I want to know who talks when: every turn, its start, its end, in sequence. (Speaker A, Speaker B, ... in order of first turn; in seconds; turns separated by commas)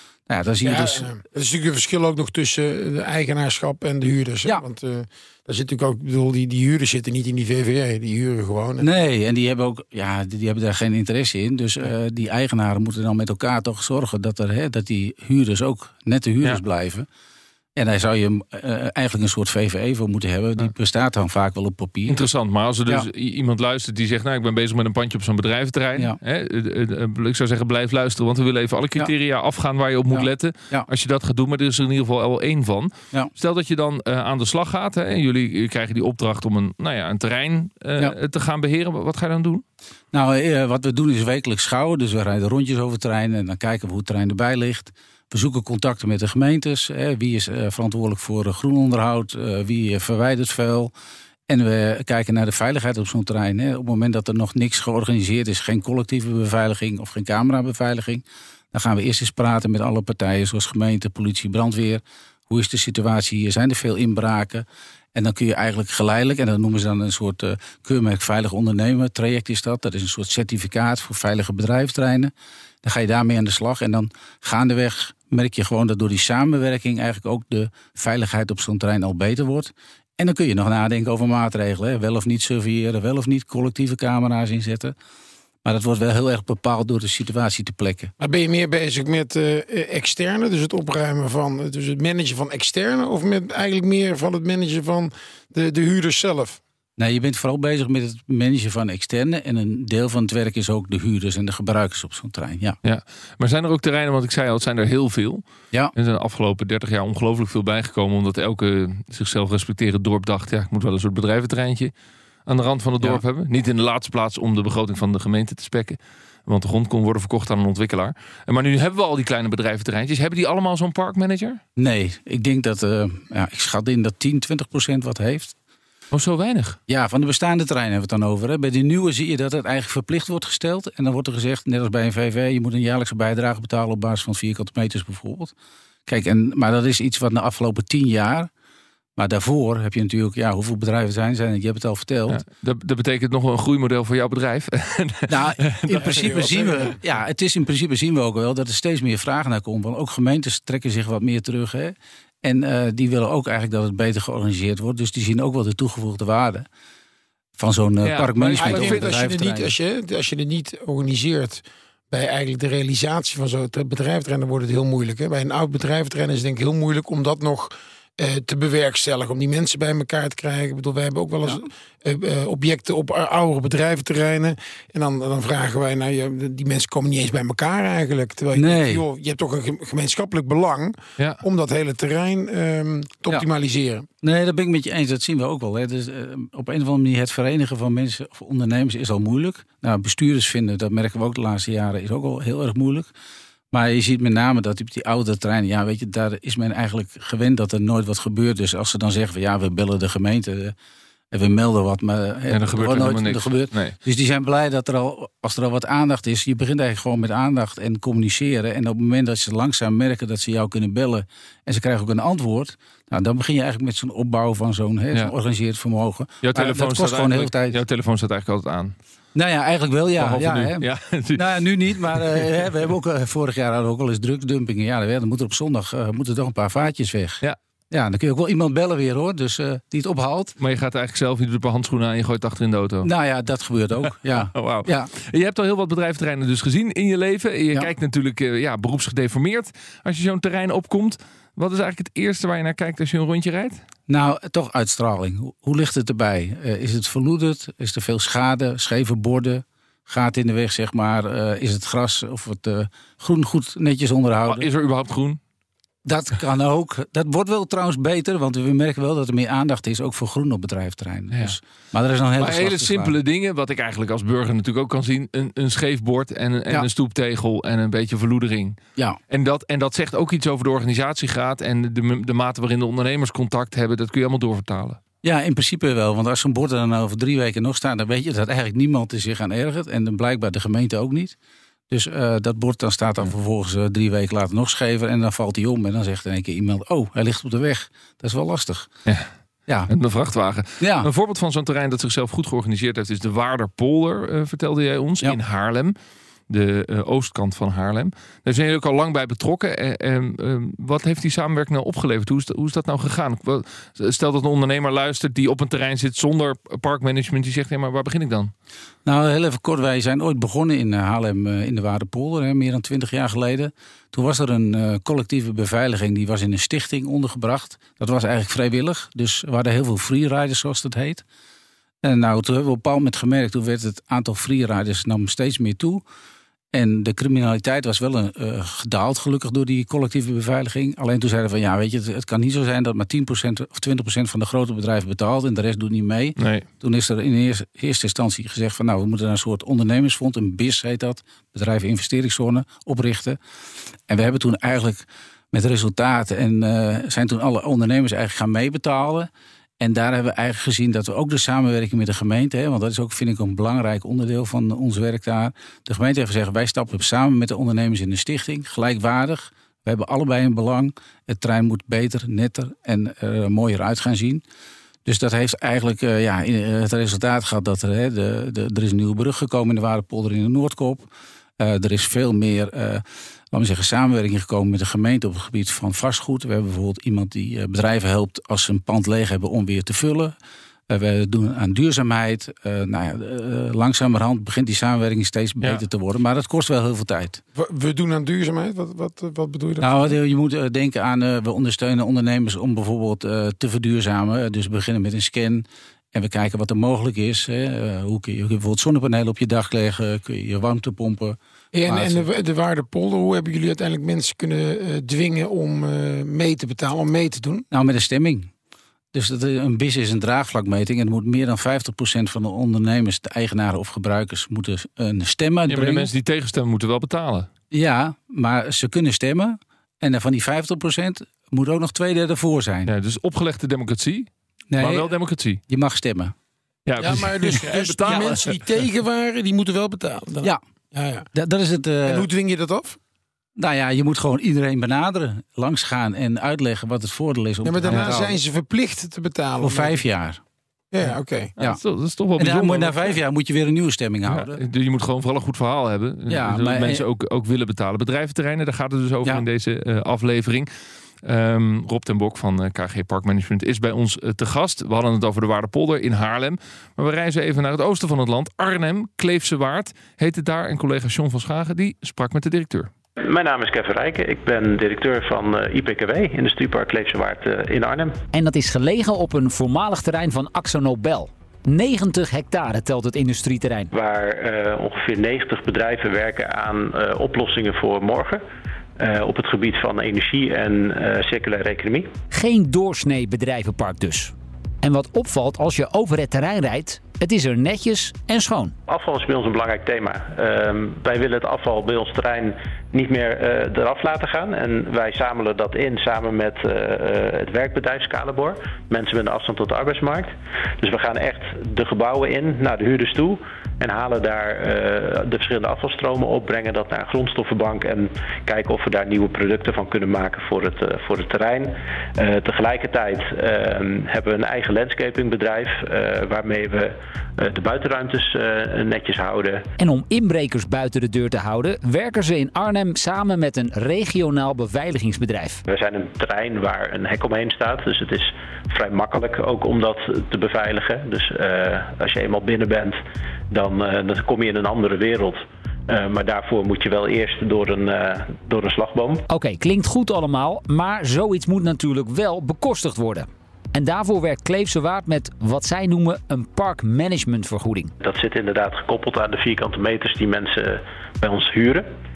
Speaker A: 0.3-1.1, Speaker B: 0.6-8.9, Speaker A: 8.8-17.1, Speaker A: 17.8-22.2, Speaker C: 22.1-39.6, Speaker A: 30.1-30.9, Speaker A: 40.1-50.9, Speaker A: 51.5-72.3, Speaker A: 72.8-84.9, Speaker A: 85.6-88.1, Speaker B: 88.2-96.6, Speaker A: 97.0-102.8, Speaker C: 102.8-105.4, Speaker C: 106.0-111.9, Speaker C: 112.5-121.6, Speaker A: 121.8-125.5, Speaker C: 126.1-126.8, Speaker A: 126.9-135.5, Speaker A: 136.1-138.5, Speaker A: 139.2-142.4, Speaker C: 142.3-146.5, Speaker A: 145.3-156.7, Speaker B: 145.9-147.0, Speaker A: 157.6-159.7, Speaker C: 158.0-159.2, Speaker B: 158.6-184.1, Speaker A: 178.5-179.0, Speaker A: 184.2-193.1, Speaker A: 193.7-200.7, Speaker A: 201.3-217.8, Speaker C: 202.5-203.9, Speaker C: 216.4-218.9, Speaker A: 219.3-230.6, Speaker C: 220.2-221.6, Speaker C: 222.1-222.4, Speaker C: 230.6-233.1, Speaker A: 233.0-235.1, Speaker C: 234.5-243.8, Speaker A: 244.1-254.7, Speaker C: 254.4-255.4, Speaker A: 256.0-263.1, Speaker C: 262.4-268.8, Speaker C: 269.3-275.0, Speaker A: 275.2-281.4, Speaker A: 281.9-288.9, Speaker C: 289.9-295.9, Speaker A: 290.8-291.1, Speaker C: 296.5-308.5, Speaker A: 309.0-321.2, Speaker A: 322.0-326.0, Speaker A: 326.7-343.4, Speaker C: 336.4-336.6, Speaker A: 344.1-364.4, Speaker A: 365.0-380.3, Speaker A: 380.9-387.4, Speaker B: 387.6-390.1, Speaker A: 389.8-402.2, Speaker B: 401.7-407.6, Speaker A: 407.7-408.5, Speaker A: 409.1-416.1, Speaker C: 415.7-417.5, Speaker A: 417.7-422.9, Speaker C: 422.9-425.6, Speaker A: 424.7-425.1, Speaker A: 425.7-426.3, Speaker C: 426.9-428.6, Speaker B: 427.0-431.3, Speaker A: 428.1-428.4, Speaker A: 431.3-432.2, Speaker B: 432.1-433.0, Speaker A: 433.6-438.4, Speaker B: 437.6-440.0, Speaker A: 439.6-440.4, Speaker B: 440.9-441.5, Speaker C: 441.6-443.2, Speaker A: 442.4-444.6, Speaker C: 444.3-450.7, Speaker A: 446.3-447.0, Speaker C: 451.2-462.9, Speaker D: 463.2-468.1, Speaker E: 468.3-473.9, Speaker D: 473.9-478.4, Speaker D: 479.0-482.1, Speaker E: 482.3-488.7, Speaker D: 488.9-519.6, Speaker E: 519.8-525.6, Speaker D: 525.7-533.0, Speaker D: 533.5-539.2, Speaker E: 539.3-547.9, Speaker D: 548.0-551.9